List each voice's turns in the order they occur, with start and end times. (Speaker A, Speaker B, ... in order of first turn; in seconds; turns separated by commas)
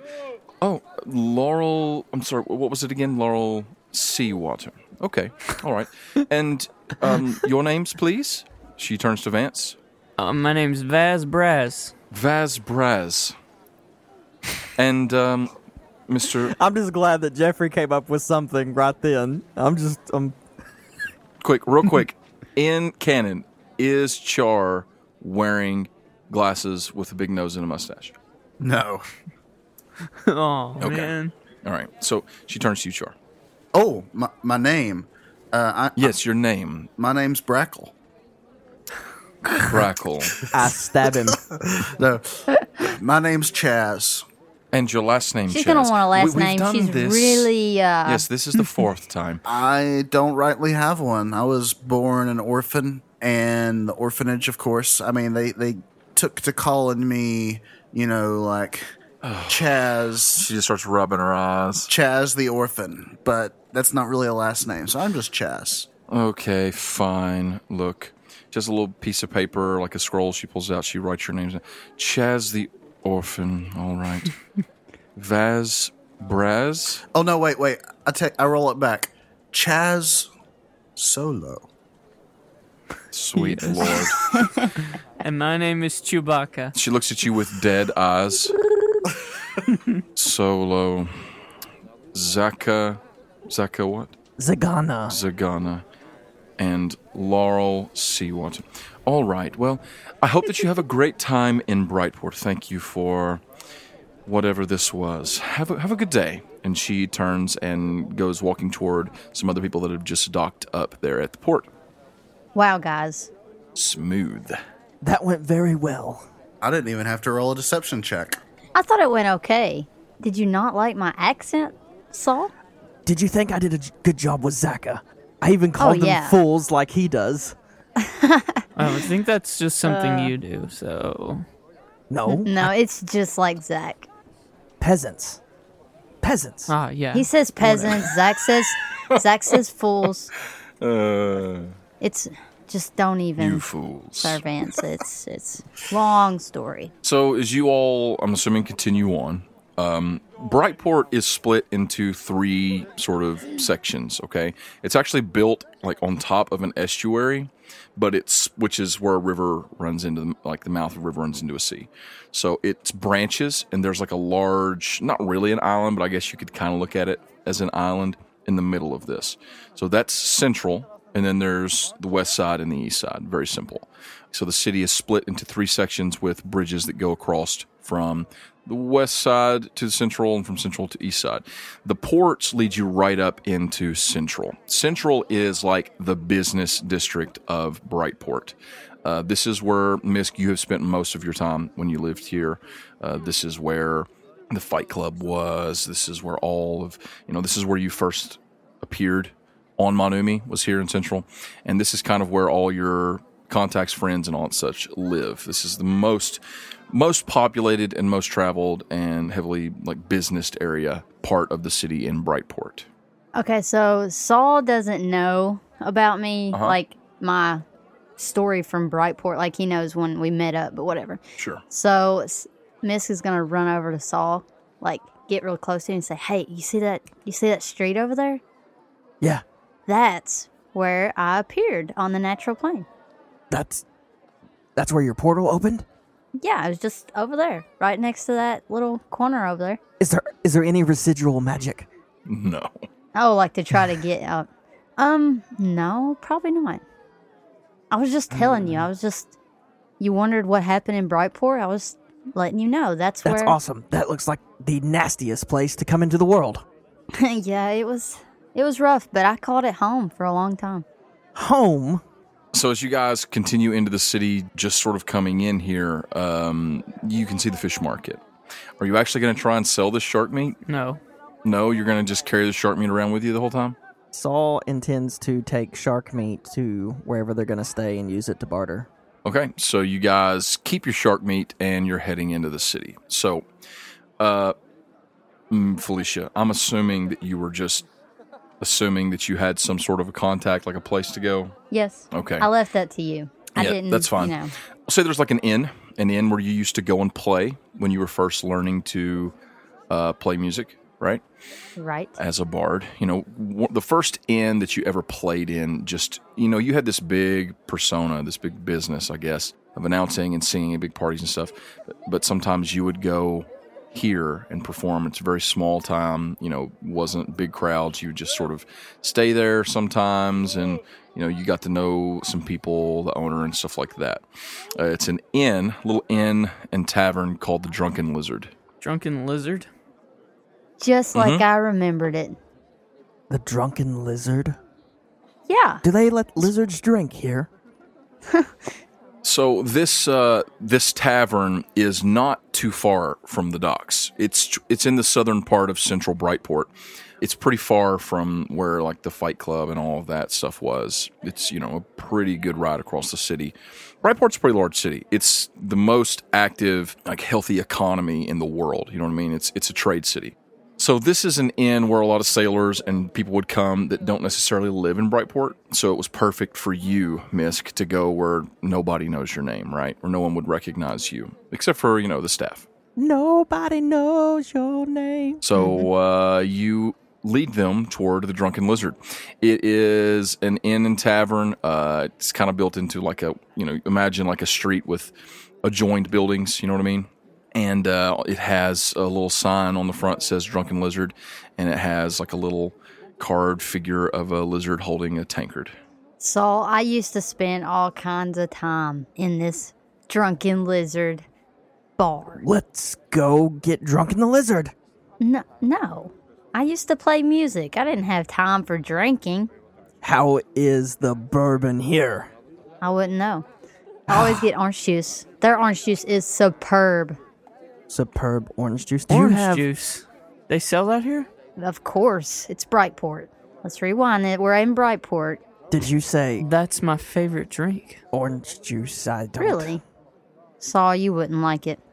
Speaker A: 0.6-9.8, Speaker B: 10.2-11.9, Speaker A: 12.1-13.3, Speaker A: 14.8-15.5, Speaker A: 16.1-16.5, Speaker C: 16.5-20.4, Speaker A: 21.4-28.1, Speaker D: 28.6-29.0, Speaker B: 30.2-31.3, Speaker A: 30.8-33.1, Speaker D: 33.7-36.1, Speaker A: 36.0-36.9, Speaker D: 37.0-37.9, Speaker D: 39.5-39.8, Speaker A: 39.6-40.4, Speaker D: 40.4-44.2, Speaker C: 40.5-41.4, Speaker A: 44.7-47.5, Speaker E: 45.5-48.2, Speaker A: 48.0-49.4, Speaker D: 49.5-58.8, Speaker A: 59.2-61.9, Speaker D: 59.5-60.4, Speaker D: 61.9-65.9, Speaker A: 66.1-74.3, Speaker A: 75.2-77.0, Speaker D: 77.1-80.3, Speaker D: 81.0-81.6, Speaker A: 83.1-84.5, Speaker B: 83.4-84.2, Speaker E: 84.0-84.7, Speaker B: 85.2-86.7, Speaker A: 86.7-88.5, Speaker A: 90.2-91.2, Speaker A: 92.1-94.1, Speaker C: 94.4-95.2, Speaker A: 95.1-95.8, Speaker A: 96.6-103.4, Speaker A: 104.2-111.7, Speaker E: 112.5-113.3, Speaker A: 113.7-114.6, Speaker C: 115.0-116.2, Speaker D: 116.6-118.4, Speaker E: 118.7-122.5, Speaker C: 123.0-127.5, Speaker E: 125.8-126.4, Speaker E: 128.0-128.6, Speaker B: 128.8-131.4, Speaker E: 129.8-130.3, Speaker C: 132.1-132.7, Speaker E: 132.3-134.1, Speaker C: 134.8-135.4, Speaker C: 136.2-136.7, Speaker B: 136.7-137.3, Speaker E: 137.1-140.3, Speaker C: 137.6-138.0, Speaker A: 140.8-141.7, Speaker E: 142.0-143.7, Speaker A: 143.4-144.4, Speaker E: 144.2-146.9, Speaker A: 147.0-212.9, Speaker E: 213.3-217.6, Speaker A: 216.5-216.8, Speaker E: 218.2-228.4, Speaker A: 221.4-221.6, Speaker E: 229.9-232.8, Speaker C: 233.5-233.8, Speaker C: 234.8-235.8, Speaker E: 236.4-239.8, Speaker C: 240.0-241.9, Speaker A: 242.3-242.7, Speaker E: 243.1-246.8, Speaker E: 247.9-249.3, Speaker E: 250.0-253.6, Speaker C: 253.2-256.6, Speaker E: 257.1-260.8, Speaker C: 261.3-262.0, Speaker A: 262.5-268.2, Speaker A: 268.8-270.6, Speaker B: 270.6-271.0, Speaker A: 271.4-273.8, Speaker C: 274.1-278.9, Speaker A: 279.2-283.4, Speaker A: 284.2-284.5, Speaker A: 285.5-287.9, Speaker A: 288.6-291.5, Speaker E: 291.7-294.5, Speaker A: 292.1-292.5, Speaker A: 293.6-294.4, Speaker A: 294.9-299.3, Speaker A: 299.9-301.2, Speaker E: 301.8-302.2, Speaker A: 302.2-311.5, Speaker A: 312.1-324.2, Speaker A: 324.8-328.5, Speaker B: 328.8-329.7, Speaker E: 330.8-332.4, Speaker A: 331.1-331.4, Speaker C: 333.3-334.6, Speaker E: 335.5-335.8, Speaker C: 335.8-337.5, Speaker A: 339.2-346.7, Speaker A: 347.2-372.7, Speaker C: 372.9-375.4, Speaker A: 375.4-385.1, Speaker E: 375.6-375.8, Speaker A: 385.6-395.7, Speaker E: 396.2-401.2, Speaker E: 402.0-402.4, Speaker C: 402.4-404.7, Speaker E: 405.2-409.5, Speaker C: 410.0-412.3, Speaker E: 412.8-413.4, Speaker C: 414.1-414.4, Speaker E: 414.1-417.2, Speaker C: 417.9-419.6, Speaker B: 419.1-421.3, Speaker E: 421.6-425.4, Speaker C: 425.7-426.5, Speaker B: 426.4-428.0, Speaker C: 428.1-429.7, Speaker E: 429.4-429.8, Speaker E: 430.6-431.8